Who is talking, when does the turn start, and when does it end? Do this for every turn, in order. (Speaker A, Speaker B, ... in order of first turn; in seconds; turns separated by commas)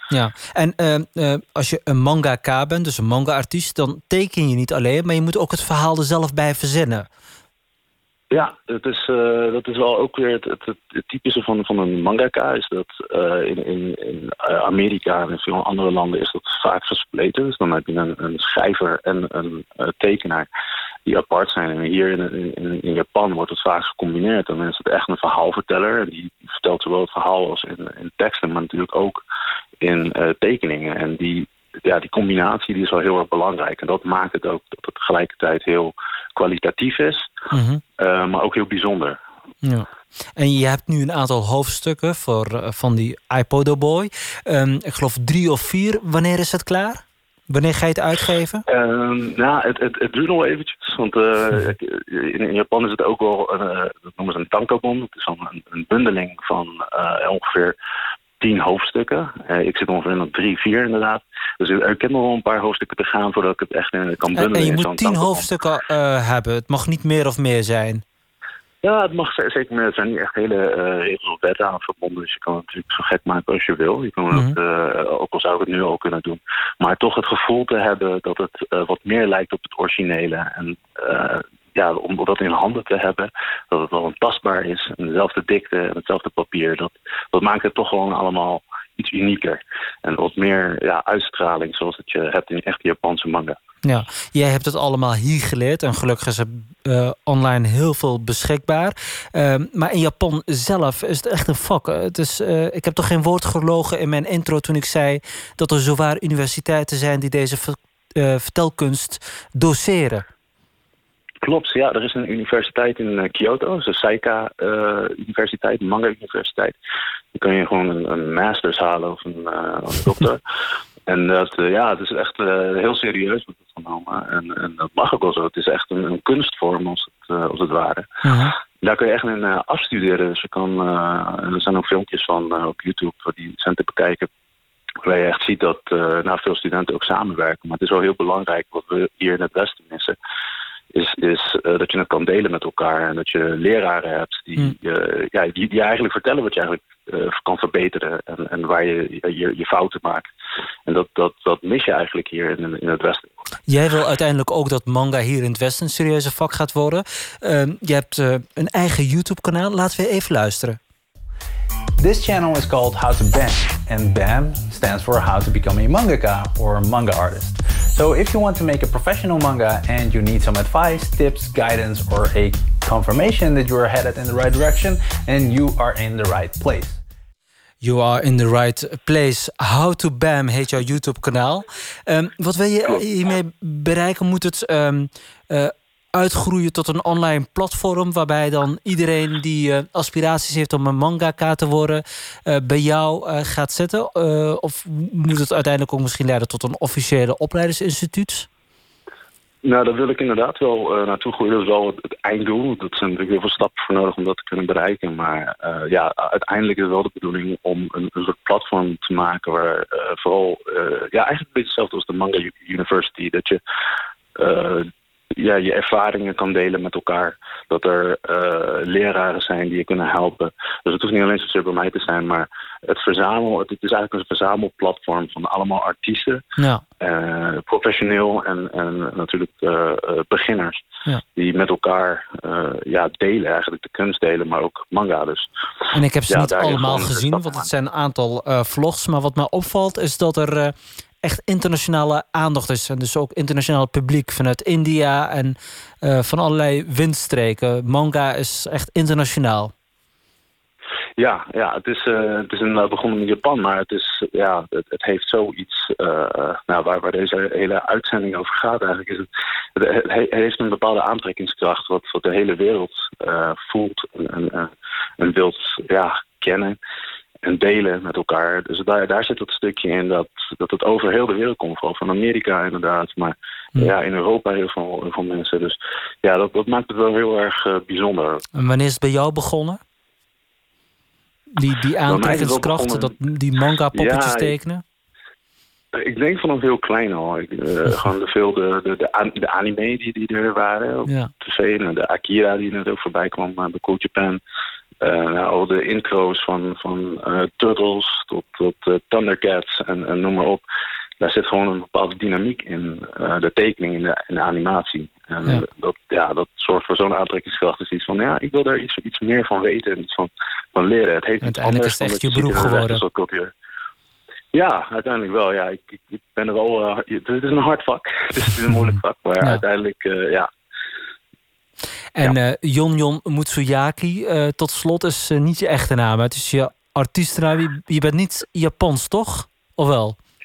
Speaker A: 0.1-7.1, Speaker B: 8.3-20.5, Speaker B: 21.1-29.2, Speaker B: 29.8-37.3, Speaker A: 37.5-37.8, Speaker B: 38.0-39.2, Speaker A: 39.6-48.6, Speaker B: 48.7-57.8, Speaker B: 58.4-65.5, Speaker A: 64.3-68.0, Speaker B: 68.8-93.6, Speaker A: 93.8-110.2, Speaker B: 111.4-116.8, Speaker B: 117.3-120.4, Speaker B: 121.1-128.1, Speaker A: 128.2-128.5, Speaker B: 128.8-134.3, Speaker B: 135.0-140.2, Speaker B: 140.9-150.3, Speaker B: 150.9-153.3, Speaker A: 153.7-160.8, Speaker C: 162.0-177.0, Speaker A: 177.8-198.5, Speaker B: 199.7-213.6, Speaker B: 214.4-226.4, Speaker A: 226.6-226.8, Speaker B: 227.0-230.8, Speaker B: 231.4-235.5, Speaker A: 235.9-249.7, Speaker B: 236.3-237.7, Speaker B: 251.2-266.8, Speaker B: 267.4-278.4, Speaker A: 278.6-279.8, Speaker A: 281.5-284.8, Speaker B: 282.1-283.1, Speaker B: 283.9-284.6, Speaker B: 285.9-294.4, Speaker B: 295.0-300.6, Speaker B: 301.2-313.5, Speaker A: 311.4-313.0, Speaker B: 314.5-320.5, Speaker A: 318.8-319.6, Speaker A: 322.1-330.2